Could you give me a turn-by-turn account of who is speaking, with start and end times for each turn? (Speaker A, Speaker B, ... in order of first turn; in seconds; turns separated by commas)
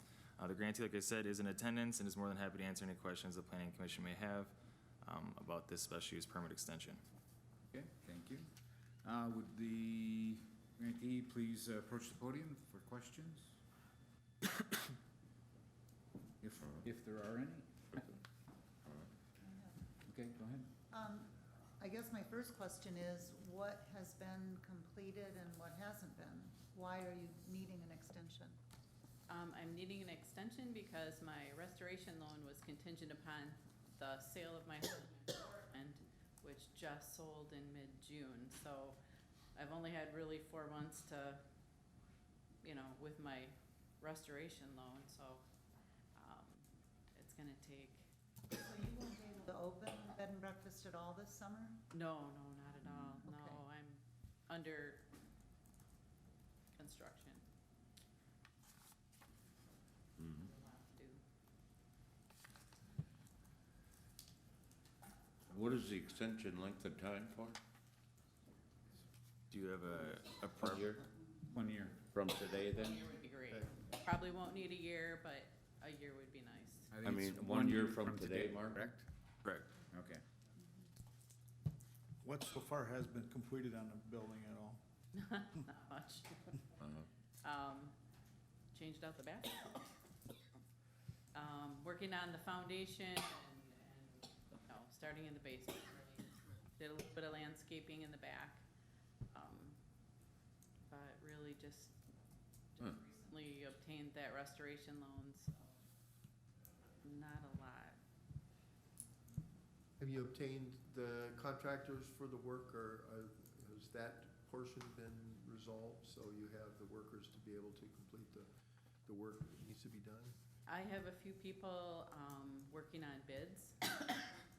Speaker A: 0.4-7.0, Speaker B: 7.7-8.5, Speaker B: 9.0-13.6, Speaker B: 16.4-18.1, Speaker C: 19.4-19.7, Speaker B: 20.1-20.7, Speaker C: 20.9-28.6, Speaker D: 29.3-39.0, Speaker D: 39.5-41.4, Speaker D: 42.6-45.4, Speaker D: 46.1-48.1, Speaker C: 48.5-51.8, Speaker D: 51.9-55.1, Speaker C: 52.9-53.6, Speaker D: 56.8-57.4, Speaker E: 60.2-60.5, Speaker D: 60.5-61.2, Speaker E: 65.5-67.6, Speaker A: 69.5-70.9, Speaker E: 70.6-71.0, Speaker B: 71.5-72.2, Speaker E: 72.1-73.0, Speaker D: 72.8-76.9, Speaker B: 76.9-79.1, Speaker E: 77.0-78.8, Speaker B: 79.9-80.2, Speaker F: 82.2-84.8, Speaker D: 85.1-86.6, Speaker E: 86.8-87.1, Speaker D: 87.4-87.9, Speaker D: 88.7-89.9, Speaker D: 91.3-98.6, Speaker D: 99.3-99.8, Speaker D: 100.8-102.0, Speaker D: 102.8-105.8, Speaker D: 107.0-108.0, Speaker G: 110.0-118.5, Speaker G: 119.0-120.3, Speaker D: 120.7-123.8